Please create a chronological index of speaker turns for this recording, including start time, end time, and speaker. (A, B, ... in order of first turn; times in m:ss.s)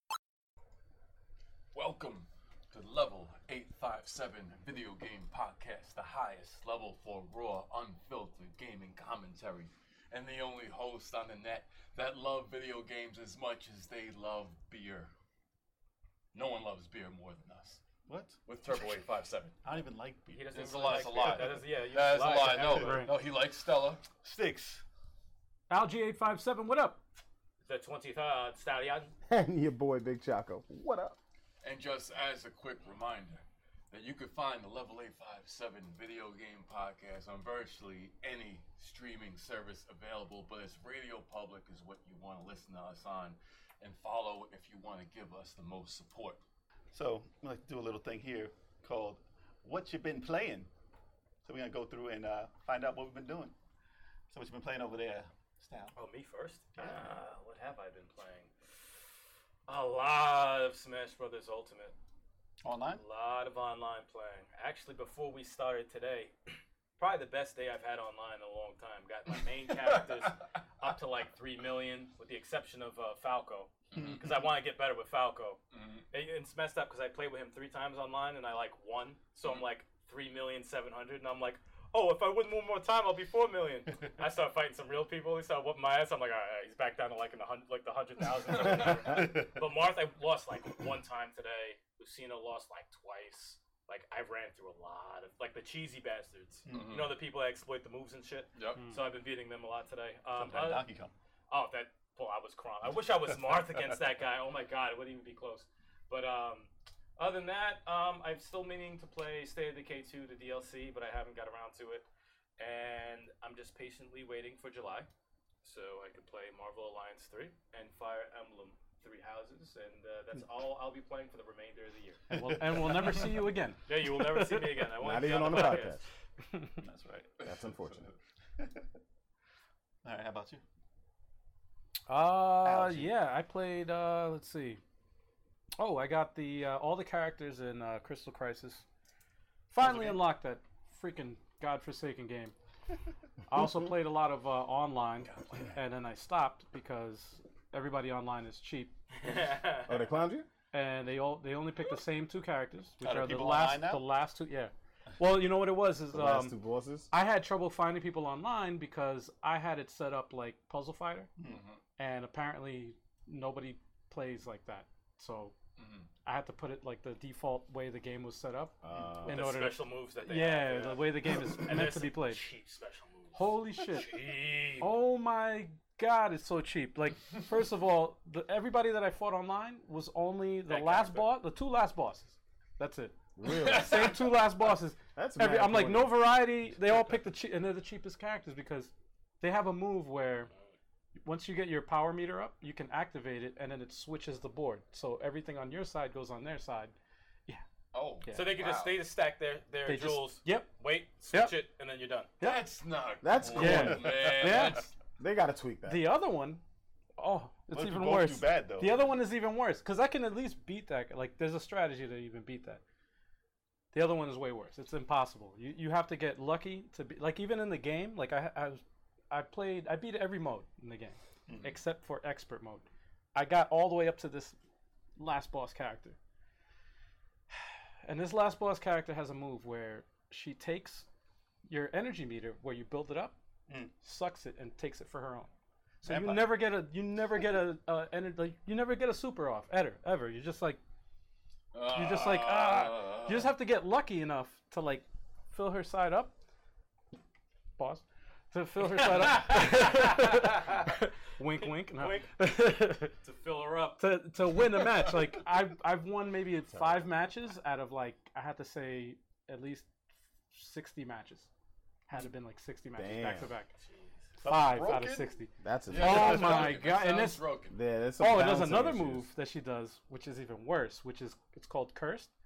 0:01.7-0:15.1 A
0:16.3-0:17.8 A
0:18.1-0:18.4 B
0:18.4-0:19.6 A
0:19.6-0:21.3 B
0:20.3-0:23.0 C
0:20.5-0:24.0 A
0:22.4-0:23.1 D
0:24.2-0:24.8 B
0:25.7-0:27.0 D
0:27.6-0:29.1 C
0:29.3-0:31.2 E
0:31.6-0:46.4 A
0:46.9-0:50.7 B
0:51.4-0:53.5 B
0:54.3-0:55.9 B
0:55.9-0:58.5 C
0:56.8-0:57.2 B
0:59.7-1:01.9 C
1:02.6-1:03.0 B
1:03.0-1:15.6 C
1:09.8-1:10.3 A
1:13.9-1:14.2 A
1:15.7-1:16.0 A
1:16.1-1:40.8 C
1:28.5-1:29.0 A
1:28.6-1:29.6 B
1:36.7-1:37.0 B
1:36.7-1:37.2 A
1:38.6-1:38.8 A
1:38.8-1:39.0 D
1:40.3-1:41.1 B
1:41.5-1:52.0 C
1:52.6-1:55.1 C
1:55.6-2:02.2 C
2:02.3-2:05.8 D
2:02.3-2:03.2 B
2:03.8-2:06.0 C
2:05.0-2:06.0 E
2:06.8-2:07.4 B
2:07.4-2:08.2 A
2:07.4-2:08.1 E
2:10.0-2:10.6 B
2:12.1-2:14.8 D
2:12.6-2:13.2 B
2:15.8-2:18.8 D
2:19.7-2:22.5 D
2:19.8-2:20.2 B
2:23.5-2:28.9 D
2:23.6-2:23.9 E
2:25.2-2:25.6 A
2:29.2-2:30.0 C
2:29.8-2:30.5 E
2:30.7-2:36.6 D
2:33.0-2:34.0 B
2:36.1-2:37.1 E
2:37.1-2:41.3 D
2:41.4-2:41.6 B
2:41.4-2:41.8 A
2:42.0-2:45.5 D
2:45.8-2:46.1 A
2:46.2-2:48.8 D
2:48.8-2:49.4 E
2:49.2-2:51.0 C
2:49.3-2:52.4 D
2:51.6-2:54.9 C
2:53.3-2:54.1 D
2:54.8-3:10.5 D
3:00.7-3:01.4 C
3:03.4-3:04.0 E
3:03.5-3:04.6 A
3:05.1-3:06.3 E
3:11.2-3:16.9 D
3:17.9-3:19.0 A
3:18.2-3:18.6 D
3:18.3-3:22.3 C
3:19.8-3:20.7 D
3:21.3-3:21.6 D
3:22.4-3:22.6 D
3:22.4-3:24.9 A
3:23.2-3:24.3 E
3:23.5-3:24.9 D
3:23.7-3:24.6 B
3:25.2-3:26.1 E
3:25.8-3:26.6 D
3:27.2-3:32.8 D
3:27.7-3:29.0 B
3:33.9-3:44.6 D
3:41.5-3:41.7 B
3:45.2-3:46.2 D
3:48.0-3:51.1 D
3:51.7-3:53.4 D
3:53.7-3:53.9 B
3:54.0-3:55.5 D
3:56.0-3:56.6 B
3:56.0-4:00.8 D
4:01.7-4:03.5 A
4:01.9-4:06.3 D
4:07.8-4:13.1 D
4:09.0-4:10.8 C
4:11.8-4:12.3 C
4:13.2-4:14.0 C
4:14.0-4:19.9 D
4:16.7-4:17.0 E
4:20.5-4:21.5 D
4:22.1-4:23.7 D
4:23.0-4:23.5 E
4:23.8-4:24.4 C
4:24.4-4:25.3 B
4:24.4-4:27.4 D
4:25.6-4:26.5 E
4:25.9-4:27.8 A
4:26.0-4:26.9 B
4:27.7-4:29.3 E
4:28.2-4:32.3 D